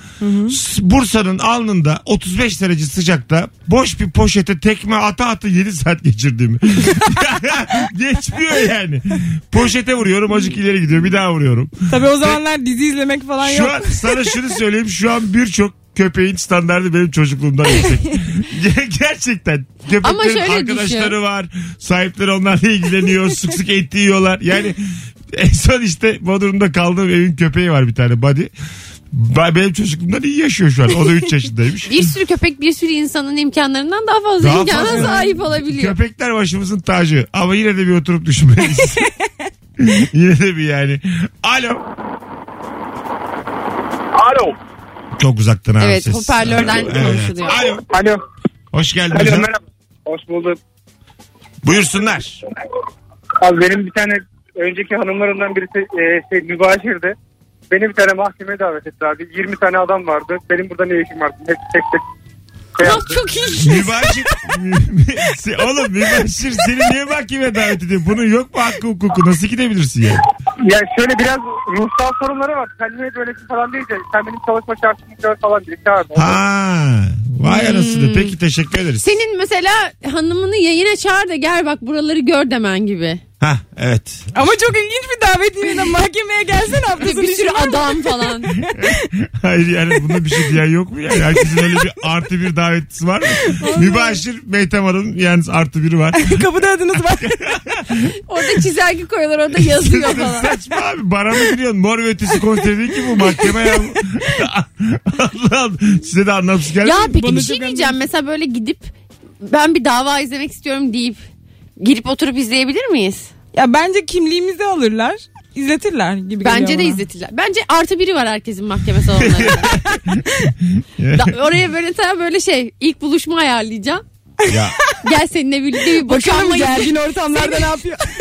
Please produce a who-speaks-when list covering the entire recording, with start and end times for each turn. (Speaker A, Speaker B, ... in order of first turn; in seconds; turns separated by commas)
Speaker A: 0.2-0.6, Speaker B: 0.5-12.4, Speaker A: 11.9-14.3, Speaker B: 13.4-24.8, Speaker C: 20.0-21.1, Speaker B: 25.3-28.5, Speaker B: 29.1-32.1, Speaker C: 31.9-35.9, Speaker B: 34.4-39.1, Speaker A: 34.9-35.2, Speaker B: 39.8-41.8, Speaker B: 45.2-47.8, Speaker C: 45.8-47.6, Speaker B: 48.7-49.5, Speaker D: 49.1-50.6, Speaker B: 51.6-52.4, Speaker D: 53.4-57.1, Speaker D: 57.7-62.0, Speaker D: 62.8-63.2, Speaker C: 62.8-64.2, Speaker B: 63.5-70.2, Speaker D: 70.7-76.4, Speaker B: 76.1-79.1, Speaker C: 77.5-78.3, Speaker C: 79.0-83.2, Speaker B: 83.4-84.3, Speaker A: 84.3-89.0, Speaker C: 86.9-88.5, Speaker B: 88.7-96.4, Speaker A: 91.3-91.8, Speaker A: 93.4-94.2, Speaker A: 96.1-97.3, Speaker B: 97.1-98.1, Speaker C: 98.3-100.5, Speaker B: 99.5-107.1, Speaker C: 106.8-108.9, Speaker A: 106.8-108.0, Speaker C: 109.4-111.2, Speaker C: 111.8-113.3, Speaker A: 113.5-117.0, Speaker C: 116.4-119.7, Speaker B: 119.1-121.3, Speaker C: 121.1-124.0, Speaker A: 124.4-125.0, Speaker B: 124.5-124.8, Speaker C: 125.0-127.8, Speaker A: 126.0-128.0